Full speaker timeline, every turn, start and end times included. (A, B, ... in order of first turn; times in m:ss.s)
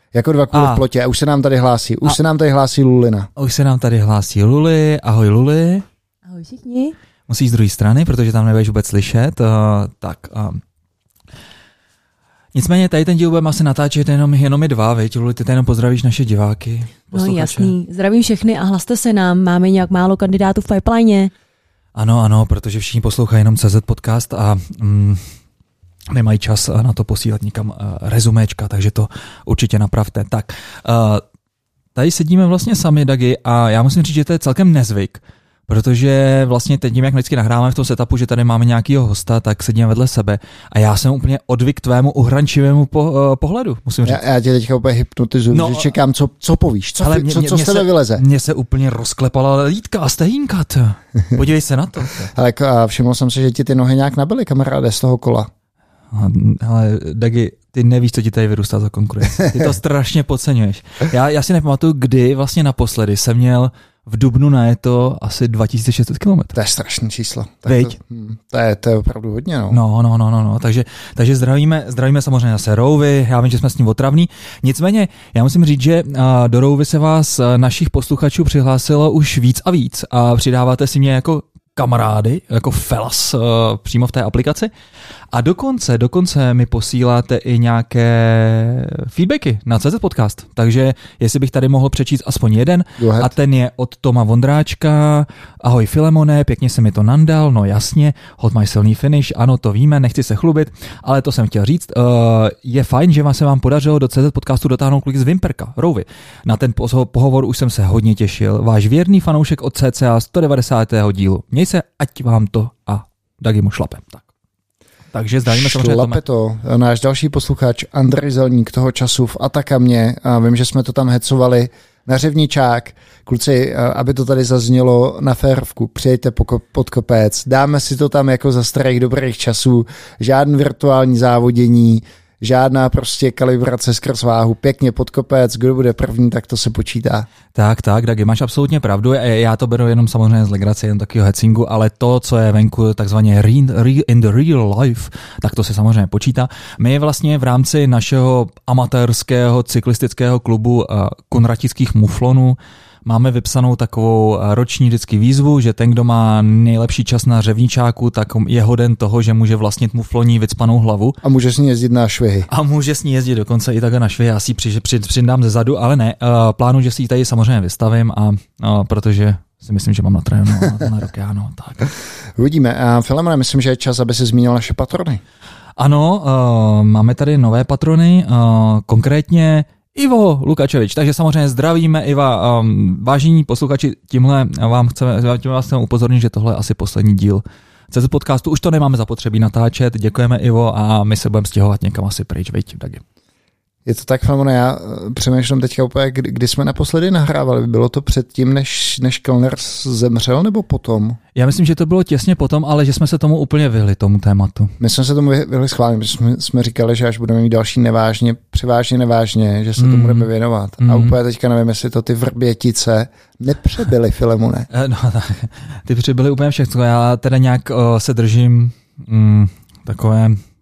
0:00.1-0:03.3 A
0:00.5-0:00.8 B
0:03.4-0:05.8 B
0:06.3-0:07.0 C
0:07.3-0:10.6 B
0:12.5-0:17.7 B
0:17.1-0:21.3 C
0:21.9-0:25.3 B
0:26.1-0:31.2 B
0:31.9-0:44.2 B
0:44.0-0:48.2 A
0:45.5-0:45.9 B
0:47.0-0:52.3 B
0:52.3-0:55.5 A
0:56.1-1:06.6 B
1:06.5-1:09.8 A
1:07.6-1:08.0 B
1:09.7-1:24.7 B
1:25.3-1:54.2 B
1:33.0-1:33.3 A
1:55.1-1:56.2 B
1:55.4-2:17.3 A
2:17.5-2:41.2 B
2:41.2-2:42.5 A
2:42.5-2:51.9 B
2:52.3-2:55.2 A
2:55.8-3:13.0 B
3:13.8-3:21.2 A
3:21.3-3:24.7 B
3:24.8-3:34.7 A
3:29.8-3:30.3 B
3:30.8-3:31.2 B
3:34.7-3:40.4 B